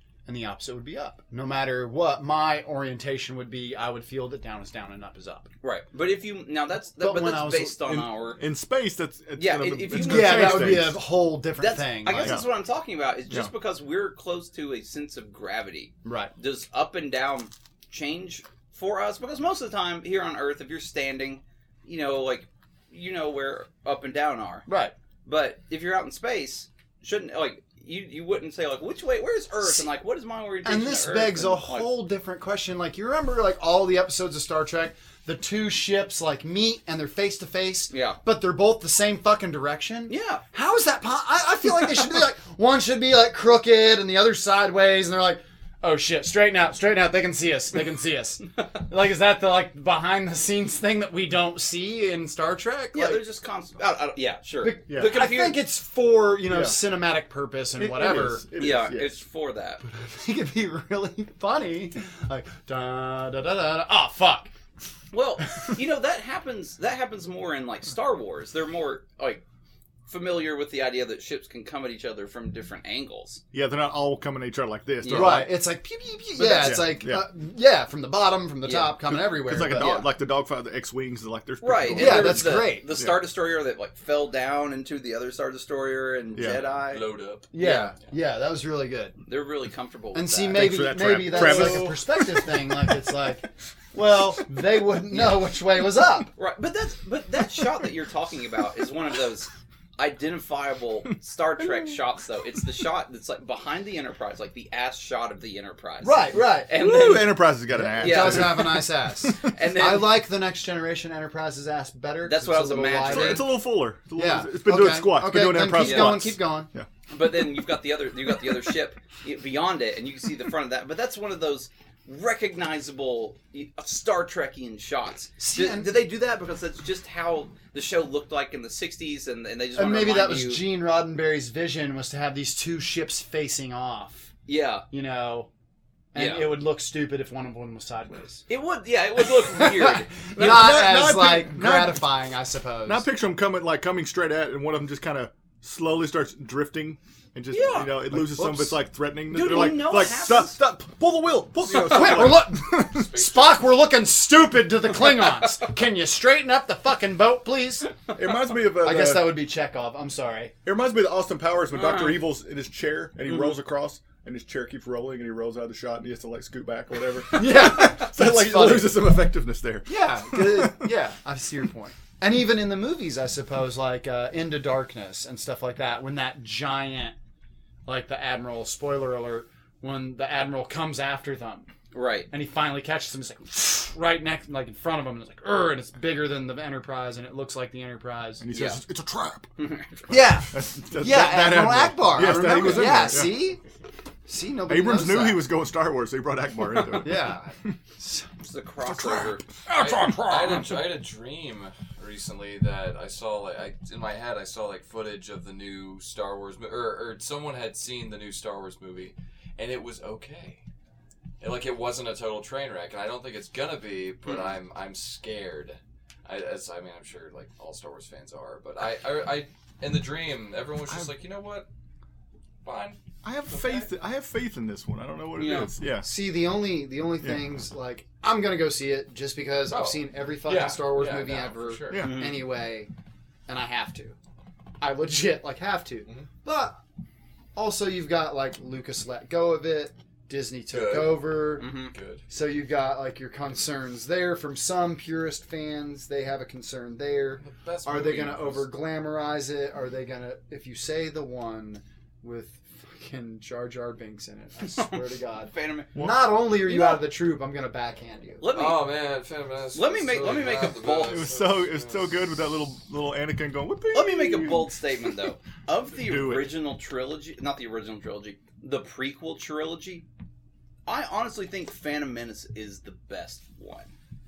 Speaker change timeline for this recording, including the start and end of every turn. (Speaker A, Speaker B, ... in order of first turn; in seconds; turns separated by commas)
Speaker A: 0.3-5.5, Speaker B: 5.6-8.4, Speaker A: 7.0-8.1, Speaker C: 8.4-11.1, Speaker B: 9.4-11.0, Speaker A: 9.9-12.4, Speaker B: 11.6-24.7, Speaker C: 12.1-12.5, Speaker A: 16.0-16.3, Speaker A: 24.7-24.9, Speaker B: 25.2-31.9, Speaker A: 30.6-53.2, Speaker B: 37.9-38.2, Speaker B: 40.1-40.4, Speaker B: 52.9-55.6, Speaker A: 54.6-58.6, Speaker C: 54.9-55.2, Speaker C: 56.5-56.8, Speaker C: 57.8-59.2, Speaker B: 58.6-59.8, Speaker A: 59.8-64.5, Speaker B: 65.1-69.4, Speaker B: 70.1-73.4, Speaker C: 73.5-75.6, Speaker B: 75.0-75.5, Speaker A: 75.1-80.0, Speaker B: 76.4-76.9, Speaker C: 76.6-77.3, Speaker B: 78.7-80.1, Speaker C: 79.0-83.2, Speaker B: 81.6-87.0, Speaker A: 81.9-82.9, Speaker C: 86.3-86.6, Speaker D: 86.9-87.5, Speaker A: 87.5-89.2, Speaker B: 87.6-88.0, Speaker B: 89.3-90.8, Speaker A: 90.1-96.3, Speaker C: 90.5-93.1, Speaker B: 91.4-91.8, Speaker B: 95.1-95.5, Speaker B: 96.3-108.7, Speaker A: 106.0-106.8, Speaker C: 106.7-109.5, Speaker A: 107.7-113.6, Speaker B: 109.4-110.2, Speaker B: 112.2-113.5, Speaker C: 113.1-116.9, Speaker A: 114.2-116.7, Speaker B: 115.8-116.3, Speaker B: 117.1-130.6, Speaker A: 125.4-125.9, Speaker A: 129.8-134.3, Speaker B: 134.5-134.9, Speaker A: 134.9-135.5, Speaker A: 136.1-138.4, Speaker B: 136.2-136.5, Speaker B: 138.5-140.1, Speaker A: 139.5-143.1, Speaker C: 140.3-142.2, Speaker C: 142.8-153.1, Speaker B: 147.5-148.0, Speaker A: 148.1-148.8, Speaker B: 149.3-150.6, Speaker D: 151.7-153.7, Speaker A: 151.7-157.9, Speaker C: 158.1-159.4, Speaker A: 158.8-160.5, Speaker C: 160.7-171.0, Speaker B: 161.7-162.2, Speaker A: 167.3-169.2, Speaker A: 169.9-177.2, Speaker A: 177.9-181.7, Speaker B: 181.9-182.3, Speaker A: 182.3-188.5, Speaker C: 188.4-189.5, Speaker B: 188.5-188.8, Speaker B: 189.6-189.9, Speaker C: 190.1-193.5, Speaker A: 190.1-193.6, Speaker A: 194.3-195.5, Speaker C: 194.7-197.4, Speaker A: 196.9-198.3, Speaker B: 198.4-199.5, Speaker C: 198.8-199.4, Speaker A: 199.7-200.9, Speaker D: 199.7-210.6, Speaker D: 211.4-221.7, Speaker D: 222.6-223.9, Speaker C: 223.2-226.1, Speaker B: 225.3-225.7, Speaker A: 226.0-232.9, Speaker D: 229.7-232.1, Speaker C: 231.9-232.2, Speaker B: 232.0-232.4, Speaker A: 233.5-234.2, Speaker A: 234.8-236.8, Speaker A: 237.6-241.7, Speaker D: 240.7-242.2, Speaker B: 241.6-241.9, Speaker A: 242.3-258.5, Speaker D: 247.4-248.8, Speaker B: 254.7-256.0, Speaker C: 255.9-256.4, Speaker B: 256.7-257.1, Speaker B: 258.4-258.9, Speaker D: 258.5-262.1, Speaker B: 259.7-261.3, Speaker C: 261.0-265.1, Speaker B: 263.9-270.1, Speaker C: 266.0-266.6, Speaker B: 270.9-273.9